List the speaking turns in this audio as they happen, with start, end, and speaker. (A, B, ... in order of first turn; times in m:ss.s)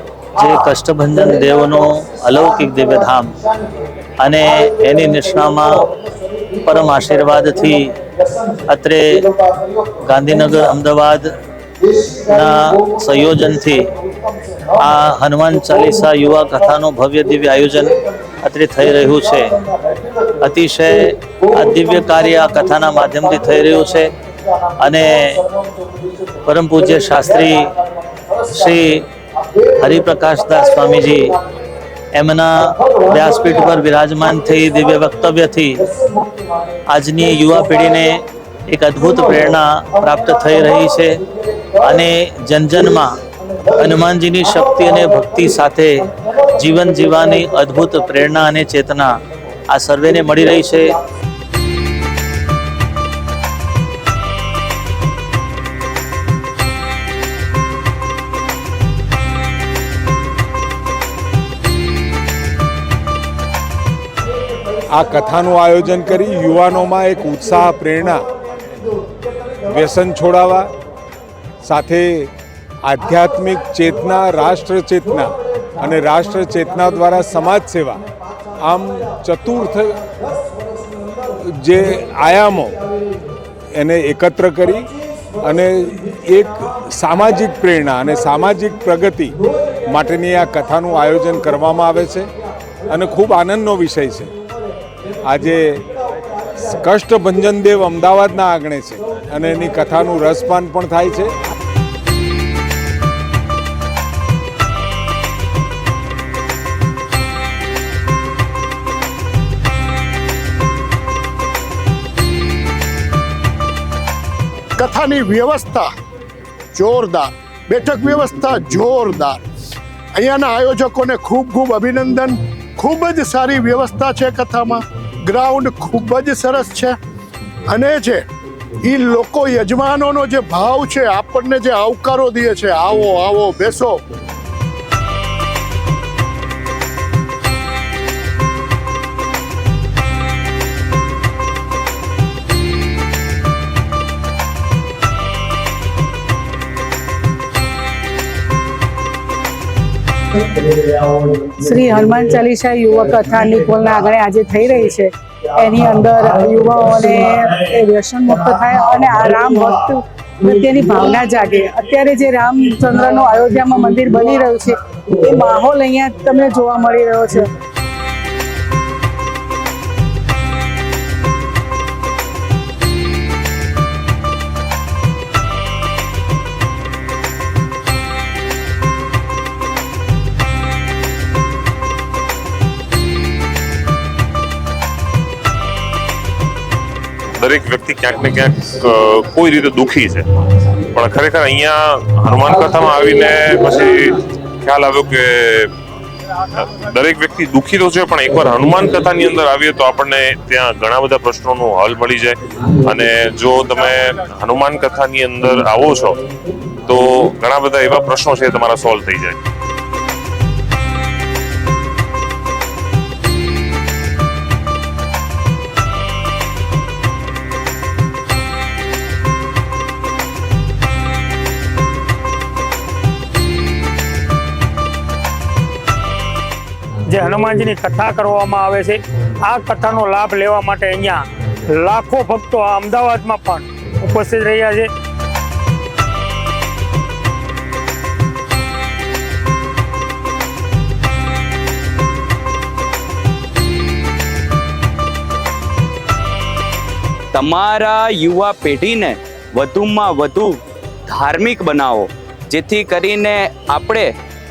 0:00.4-0:03.3 A
0:03.5-0:03.8 B
0:04.2-0:05.9 A
0:05.9-0:06.6 B
0:06.6-0:07.9 A
0:08.2-0:08.6 B
0:08.7-0:09.3 A
0:09.3-0:10.0 B
0:10.0-0:11.3 A
0:11.9-0:13.1 B
0:12.2-0:13.9 A
0:14.0-0:14.7 B
0:14.8-0:19.5 A
0:19.7-0:20.3 B
0:20.4-0:24.1 A
0:21.6-0:22.1 B
0:23.3-0:26.4 B
0:24.8-0:25.4 A
0:26.4-0:27.7 A
0:28.0-0:28.7 B
0:28.5-0:29.0 A
0:29.8-0:31.4 A
0:32.2-0:35.8 A
0:36.0-0:36.6 B
0:36.9-0:41.2 A
0:41.8-0:43.2 A
0:43.7-0:49.1 A
0:49.7-0:51.0 A
1:04.9-1:08.3 C
1:09.6-1:10.7 C
1:11.6-1:12.3 C
1:12.8-1:18.1 C
1:18.6-1:20.0 C
1:21.4-1:22.8 C
1:23.8-1:32.3 C
1:32.9-1:34.3 C
1:35.2-1:35.8 C
1:36.6-1:41.3 C
1:54.8-1:55.9 B
1:56.8-1:59.4 B
2:00.1-2:07.0 B
2:07.7-2:08.3 B
2:08.8-2:14.0 B
2:31.4-2:47.4 D
3:07.4-3:10.3 E
3:10.8-3:15.7 E
3:16.6-3:26.2 E
3:26.8-3:29.4 E
3:47.0-3:54.9 F
4:07.3-4:14.1 G